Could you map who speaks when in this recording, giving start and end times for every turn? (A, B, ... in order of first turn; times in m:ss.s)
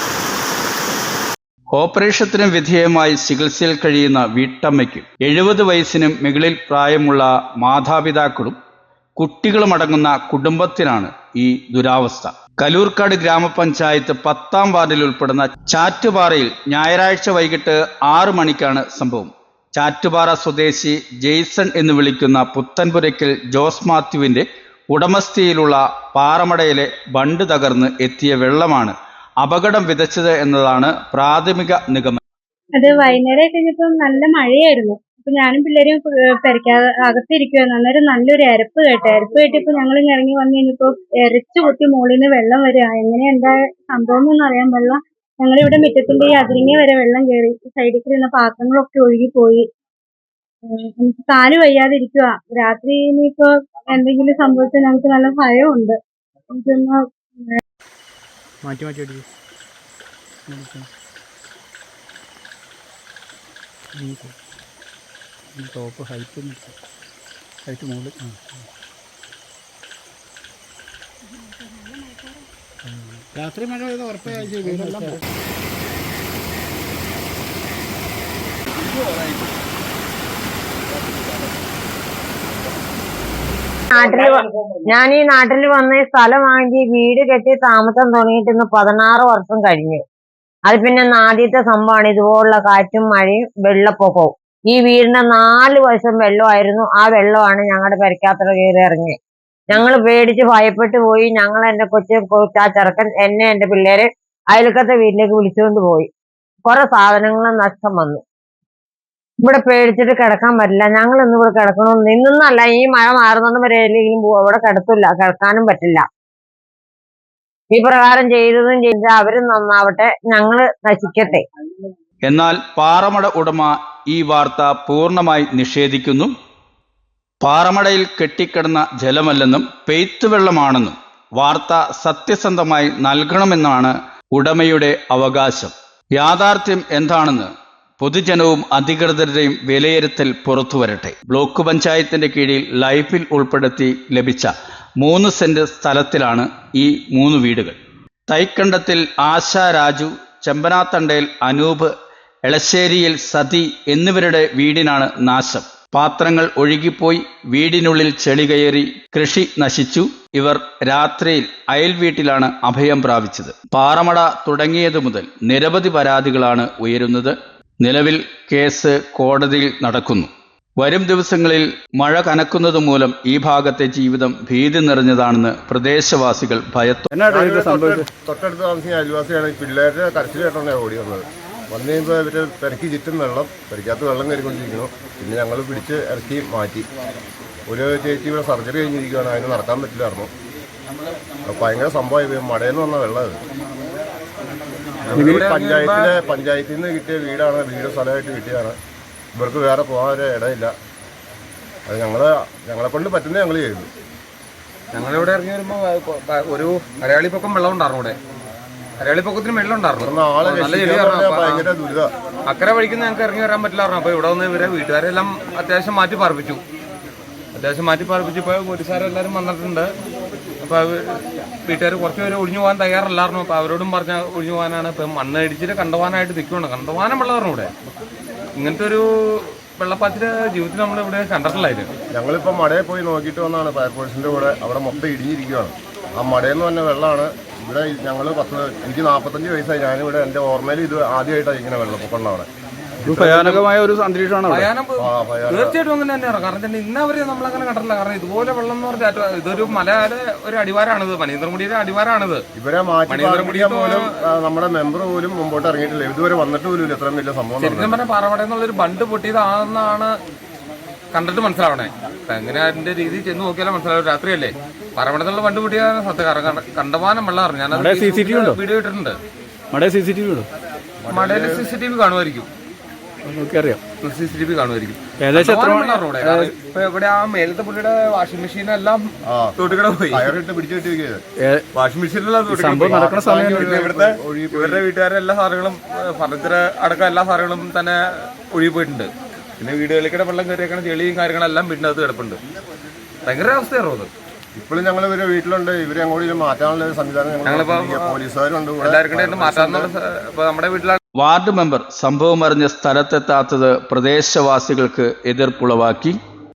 0:01.7-0:08.6 A
0:09.2-0:32.2 A
0:32.8-0:49.7 B
0:50.7-0:56.0 B
0:56.5-0:57.6 B
1:00.5-1:00.9 C
1:04.0-1:04.3 C
1:05.6-1:06.7 C
1:07.7-1:08.5 C
1:12.8-1:15.2 C
1:23.9-1:30.0 D
1:30.7-1:39.2 D
1:39.7-1:46.1 D
1:46.6-1:48.2 D
1:49.4-1:56.0 D
1:57.7-2:01.4 D
2:02.3-2:06.3 A
2:07.4-2:31.9 A
2:32.5-2:58.1 A
2:57.3-3:06.9 E
3:07.7-3:10.3 E
3:11.5-3:13.4 E
3:15.1-3:18.8 E
3:15.1-3:16.1 F
3:15.2-3:15.4 A
3:19.3-3:20.8 E
3:21.9-3:23.9 E
3:24.9-3:28.2 F
3:29.0-3:31.7 F
3:30.0-3:32.1 E
3:32.5-3:36.6 F
3:37.6-3:39.9 F
3:40.6-3:47.7 F
3:48.6-3:51.9 F
3:52.1-4:02.5 E
4:03.0-4:04.7 A
4:03.1-4:03.6 F
4:04.5-4:12.4 F
4:05.0-4:05.8 E
4:12.5-4:18.0 E
4:13.1-4:14.0 F
4:17.6-4:20.1 F
4:21.1-4:29.2 F
4:27.7-4:28.6 A
4:29.7-4:30.5 A
4:31.0-4:31.7 E
4:31.1-4:32.5 F
4:33.2-4:33.8 A
4:34.0-4:40.3 F
4:35.2-4:36.5 A
4:39.2-4:39.6 E
4:40.1-4:41.2 E
4:41.7-4:52.4 F
4:42.5-4:43.7 A
4:42.8-4:44.8 E
4:53.2-4:54.1 F
4:54.6-4:59.9 E
4:57.4-4:58.2 F
4:58.8-5:01.0 F
5:01.2-5:06.2 A